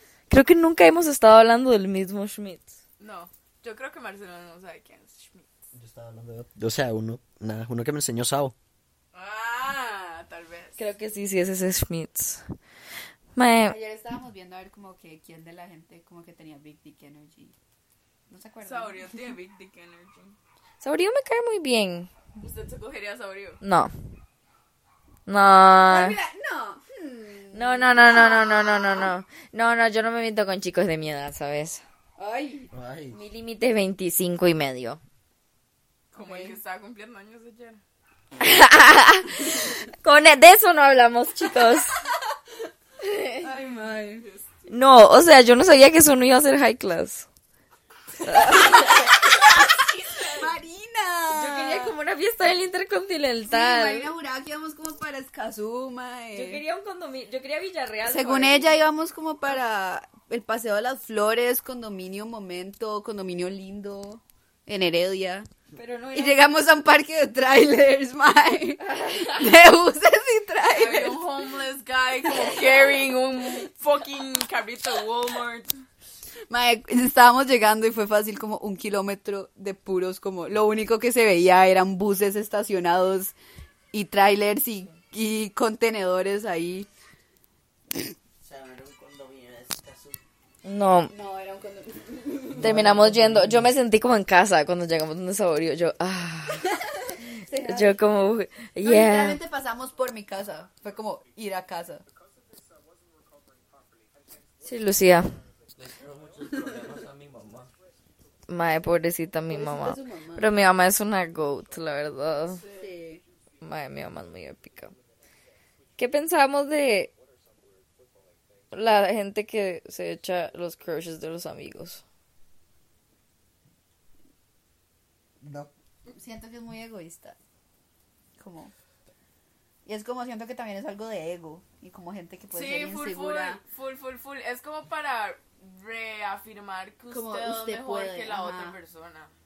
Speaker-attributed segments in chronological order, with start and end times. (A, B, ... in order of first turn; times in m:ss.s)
0:00.3-0:02.8 A
0:03.0-0:05.7 B
0:05.7-0:08.6 C
0:09.1-0:10.8 B
0:10.8-0:12.4 A
0:13.4-0:13.8 A
0:13.6-0:17.5 D
0:18.3-0:19.2 D
0:18.6-0:20.4 B
0:20.8-0:22.1 A
0:22.4-0:23.6 B
0:23.6-0:23.9 A
0:25.3-0:26.2 A
0:25.8-0:29.1 D
0:27.5-0:31.8 A
0:32.2-0:32.7 D
0:32.7-0:33.2 C
0:33.1-0:35.0 A
0:36.1-0:37.8 B
0:36.1-0:36.6 D
0:38.4-0:42.0 A
0:43.0-0:43.5 A
0:43.4-0:44.3 D
0:44.1-0:44.7 B
0:44.7-0:47.3 A
0:48.2-0:49.1 A
0:48.2-0:49.7 D
0:48.7-0:50.5 B
0:50.2-0:51.9 D
0:51.3-0:54.1 A
0:53.5-0:56.6 D
0:56.3-0:58.8 A
0:58.0-1:05.5 D
1:05.8-1:06.4 A
1:06.1-1:11.2 D
1:08.9-1:09.4 A
1:10.7-1:15.7 B
1:16.5-1:23.4 D
1:23.9-1:26.9 D
1:28.4-1:30.2 E
1:30.6-1:31.1 A
1:31.1-1:33.1 D
1:32.6-1:33.7 C
1:32.6-1:36.7 A
1:36.7-1:38.0 D
1:37.6-1:39.4 A
1:38.8-1:42.0 D
1:44.6-1:45.4 A
1:45.8-1:47.7 E
1:48.5-1:52.6 A
1:49.5-1:50.5 D
1:52.6-1:52.9 B
1:52.6-1:53.2 D
1:53.6-1:54.9 A
1:56.0-1:57.1 A
1:58.7-2:02.0 A
2:05.4-2:05.7 C
2:06.1-2:07.4 D
2:08.4-2:08.7 D
2:09.9-2:13.6 D
2:12.5-2:19.3 B
2:17.1-2:18.8 D